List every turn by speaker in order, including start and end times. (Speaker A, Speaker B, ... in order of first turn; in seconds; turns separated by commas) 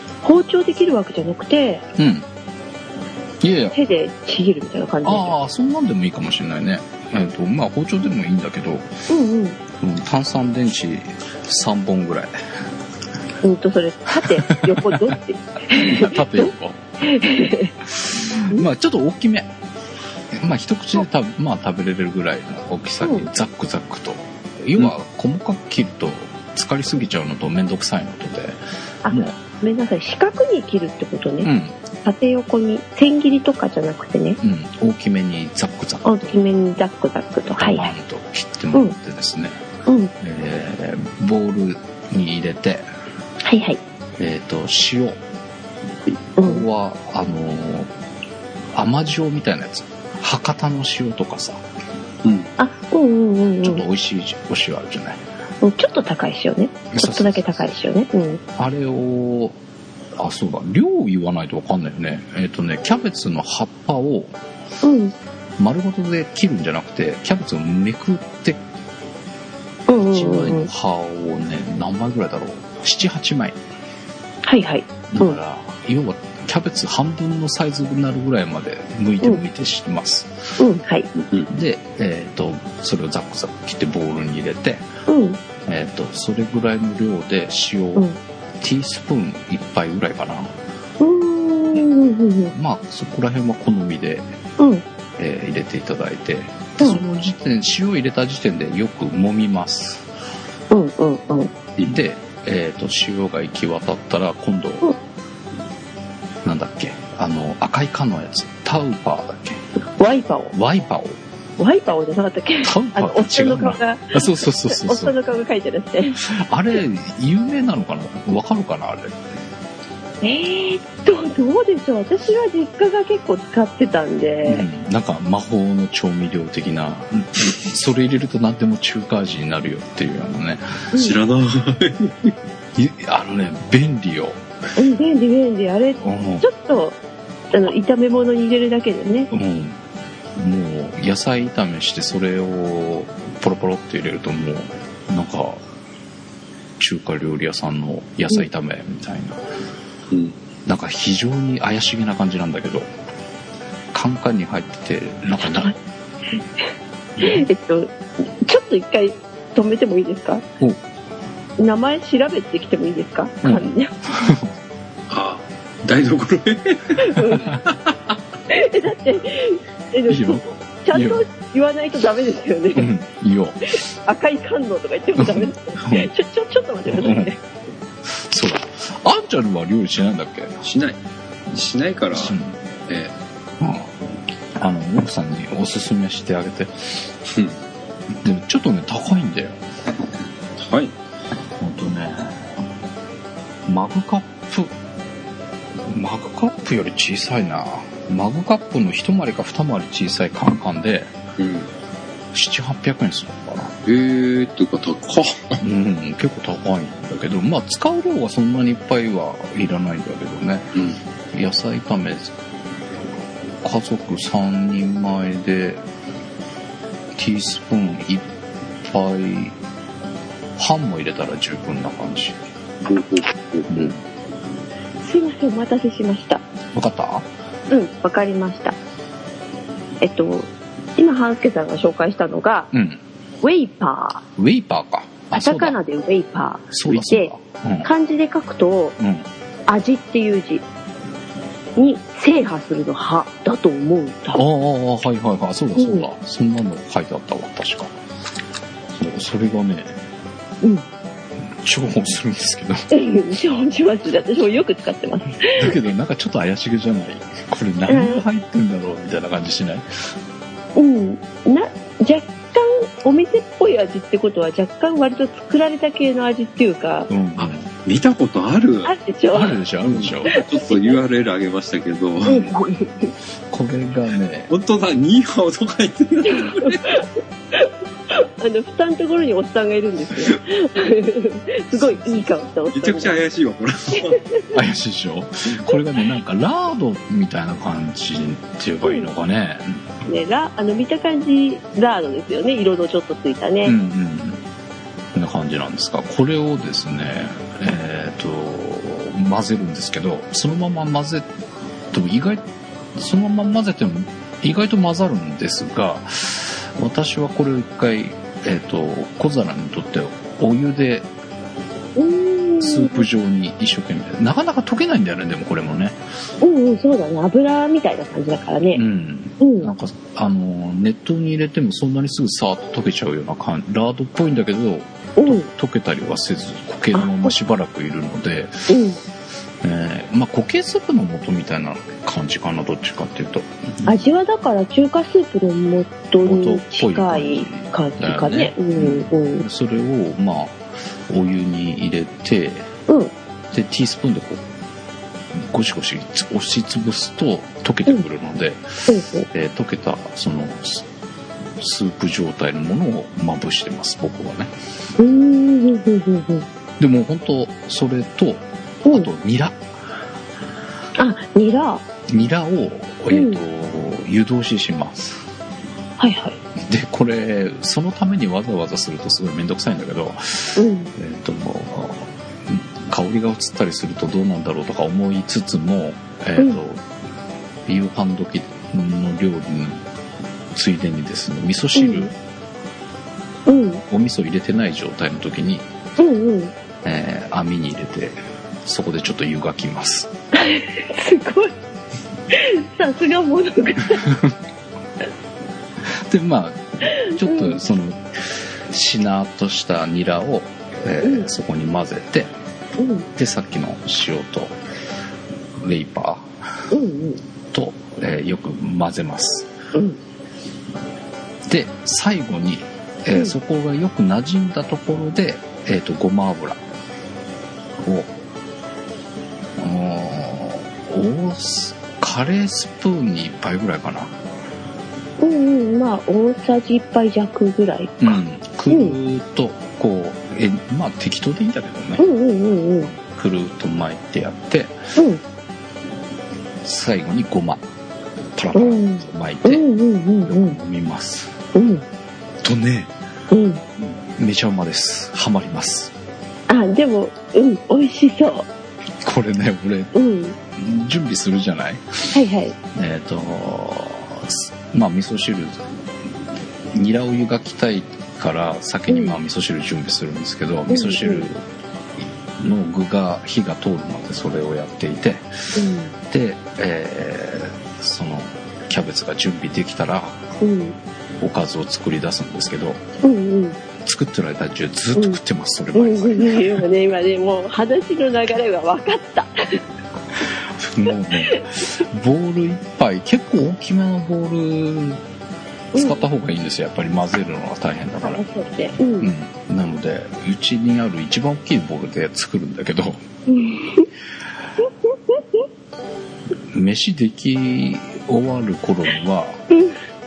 Speaker A: 0.2-1.9, Speaker B: 2.0-2.3, Speaker B: 3.4-3.8, Speaker A: 3.7-5.4, Speaker B: 5.0-8.9, Speaker A: 9.1-9.6, Speaker B: 9.8-12.3, Speaker A: 13.4-16.5, Speaker B: 14.2-15.1, Speaker B: 15.7-16.8, Speaker A: 17.0-17.7, Speaker B: 17.9-19.5, Speaker B: 20.3-28.6, Speaker A: 29.0-31.5, Speaker B: 31.4-31.8, Speaker A: 32.0-34.4, Speaker B: 34.4-36.4, Speaker A: 36.0-37.9, Speaker B: 37.5-39.6, Speaker A: 39.9-40.1, Speaker B: 40.2-42.9, Speaker A: 43.4-43.8, Speaker B: 44.2-45.2, Speaker A: 46.4-46.6, Speaker B: 46.4-47.9, Speaker B: 48.7-51.6, Speaker C: 52.2-52.5, Speaker A: 52.6-53.8, Speaker B: 53.6-55.2, Speaker A: 55.6-58.4, Speaker B: 56.9-57.4, Speaker B: 58.6-59.6, Speaker B: 60.2-64.3, Speaker A: 64.8-65.1, Speaker B: 65.6-68.6, Speaker A: 69.9-70.7, Speaker B: 70.1-73.6, Speaker A: 74.5-75.4, Speaker B: 75.1-80.5, Speaker A: 80.6-81.1, Speaker C: 81.2-81.5, Speaker B: 81.5-84.8, Speaker A: 85.1-85.4, Speaker B: 85.7-88.1, Speaker B: 88.6-90.5, Speaker A: 91.0-92.5, Speaker B: 92.5-94.3, Speaker A: 94.6-94.8, Speaker B: 95.2-100.1, Speaker A: 100.7-101.5, Speaker B: 101.8-104.9, Speaker B: 106.4-109.6, Speaker A: 110.0-110.5, Speaker B: 110.5-111.2, Speaker A: 111.6-116.2, Speaker B: 112.6-115.2, Speaker B: 116.2-119.2, Speaker A: 120.2-124.7, Speaker B: 124.5-130.8, Speaker C: 131.0-132.3, Speaker B: 132.8-134.4, Speaker A: 134.8-137.0, Speaker B: 136.0-136.5, Speaker A: 137.5-139.3, Speaker B: 139.3-139.8, Speaker B: 140.4-145.6, Speaker B: 146.8-149.4, Speaker C: 150.1-150.4, Speaker B: 150.7-152.9, Speaker B: 153.9-155.8, Speaker B: 157.2-157.5, Speaker A: 157.2-160.4, Speaker A: 161.6-163.9, Speaker B: 163.4-164.5, Speaker C: 165.1-168.0, Speaker A: 167.0-167.6, Speaker B: 167.3-167.6, Speaker A: 168.5-172.9, Speaker B: 170.1-171.2, Speaker B: 172.7-173.7, Speaker A: 174.1-177.4, Speaker B: 175.2-176.1, Speaker B: 176.9-177.3, Speaker B: 178.2-180.6, Speaker C: 180.6-181.0, Speaker C: 181.5-182.3, Speaker B: 182.1-182.6, Speaker B: 183.6-183.9, Speaker B: 184.6-187.0, Speaker C: 187.3-187.6, Speaker B: 188.2-189.6, Speaker C: 190.6-190.9, Speaker B: 191.6-192.5, Speaker B: 193.7-194.7, Speaker B: 195.9-201.1, Speaker C: 201.4-201.7, Speaker B: 202.3-203.7, Speaker C: 203.9-205.6, Speaker B: 205.6-210.7, Speaker C: 210.8-211.0, Speaker B: 211.3-212.3, Speaker B: 213.6-215.8, Speaker B: 217.2-218.2, Speaker B: 218.8-219.6, Speaker B: 220.6-222.4, Speaker C: 222.8-223.9, Speaker B: 223.7-224.0, Speaker A: 225.0-226.4, Speaker B: 226.7-227.3, Speaker A: 227.7-228.8, Speaker A: 230.0-232.7, Speaker B: 232.7-233.0, Speaker A: 233.4-234.2, Speaker B: 234.4-235.8, Speaker A: 235.3-237.3, Speaker B: 236.7-237.9, Speaker A: 237.8-239.0, Speaker B: 239.0-239.3, Speaker A: 239.7-240.6, Speaker A: 241.8-244.4, Speaker B: 244.3-247.9, Speaker A: 245.8-246.1, Speaker B: 248.9-250.0, Speaker B: 251.6-252.8, Speaker A: 252.9-255.8, Speaker B: 255.6-259.9, Speaker A: 257.9-258.2, Speaker A: 260.8-267.1, Speaker B: 267.1-267.7, Speaker C: 267.4-268.9, Speaker A: 268.9-269.6, Speaker B: 269.3-270.4, Speaker C: 269.9-272.6, Speaker A: 270.3-271.0, Speaker A: 272.3-273.1, Speaker B: 273.5-274.5, Speaker C: 274.5-277.0, Speaker A: 276.4-283.1, Speaker C: 282.7-284.2, Speaker A: 284.1-284.4, Speaker B: 284.5-289.8, Speaker A: 288.8-289.1, Speaker A: 290.1-293.8, Speaker B: 293.6-294.4, Speaker B: 295.1-301.3, Speaker B: 301.9-302.4, Speaker B: 302.9-311.1, Speaker A: 312.0-313.1, Speaker B: 312.6-316.0, Speaker A: 316.4-318.8, Speaker B: 318.7-328.7, Speaker A: 319.4-319.7, Speaker A: 325.2-325.5, Speaker A: 326.9-327.3, Speaker A: 328.7-329.0, Speaker B: 329.6-333.9, Speaker A: 333.9-339.4, Speaker B: 336.2-342.7, Speaker A: 342.9-343.1, Speaker B: 343.5-344.4, Speaker B: 345.4-348.6, Speaker A: 348.9-349.3, Speaker B: 349.3-350.8, Speaker B: 351.6-354.5, Speaker A: 355.0-356.5, Speaker B: 356.8-359.6, Speaker A: 361.0-361.8, Speaker B: 362.1-365.2, Speaker A: 363.1-363.4, Speaker A: 366.0-366.4, Speaker B: 366.6-376.8, Speaker A: 370.6-370.9, Speaker B: 377.7-379.8, Speaker B: 380.5-382.1, Speaker A: 381.8-382.1, Speaker A: 383.5-383.8, Speaker B: 383.9-385.7, Speaker A: 386.0-386.5, Speaker B: 386.8-390.1, Speaker A: 390.4-391.5, Speaker A: 392.3-394.1, Speaker B: 394.0-394.3, Speaker B: 395.8-402.3, Speaker A: 396.9-397.6, Speaker A: 401.0-401.3, Speaker A: 402.8-403.1, Speaker B: 403.2-404.6, Speaker B: 405.6-406.3, Speaker A: 406.7-407.2, Speaker B: 407.5-409.5, Speaker B: 411.5-416.6, Speaker B: 417.8-418.1, Speaker B: 419.6-424.1, Speaker A: 425.2-429.0, Speaker B: 428.0-432.1, Speaker A: 432.0-432.9, Speaker B: 432.9-434.8, Speaker A: 435.0-435.2, Speaker B: 436.6-437.6, Speaker B: 438.4-439.6, Speaker A: 438.5-440.6, Speaker B: 440.2-441.3, Speaker A: 441.6-441.8, Speaker B: 442.4-442.9, Speaker A: 443.3-443.6, Speaker B: 443.8-445.9, Speaker A: 446.5-448.5, Speaker B: 449.0-449.9, Speaker A: 449.9-450.4, Speaker B: 450.6-452.1, Speaker A: 452.1-452.6, Speaker B: 452.8-455.6, Speaker B: 456.7-461.4, Speaker A: 458.9-459.2, Speaker A: 460.7-461.3, Speaker B: 462.4-465.2, Speaker A: 465.6-465.9, Speaker B: 466.1-470.2, Speaker A: 470.4-470.8, Speaker B: 471.2-472.8, Speaker A: 473.0-473.6, Speaker B: 473.8-476.6, Speaker A: 475.8-479.6, Speaker B: 480.6-485.0, Speaker B: 485.7-488.2, Speaker A: 485.7-486.0, Speaker A: 488.0-489.1, Speaker B: 489.0-493.0, Speaker A: 493.3-493.9, Speaker A: 494.6-495.2, Speaker B: 496.5-499.4, Speaker A: 499.5-499.8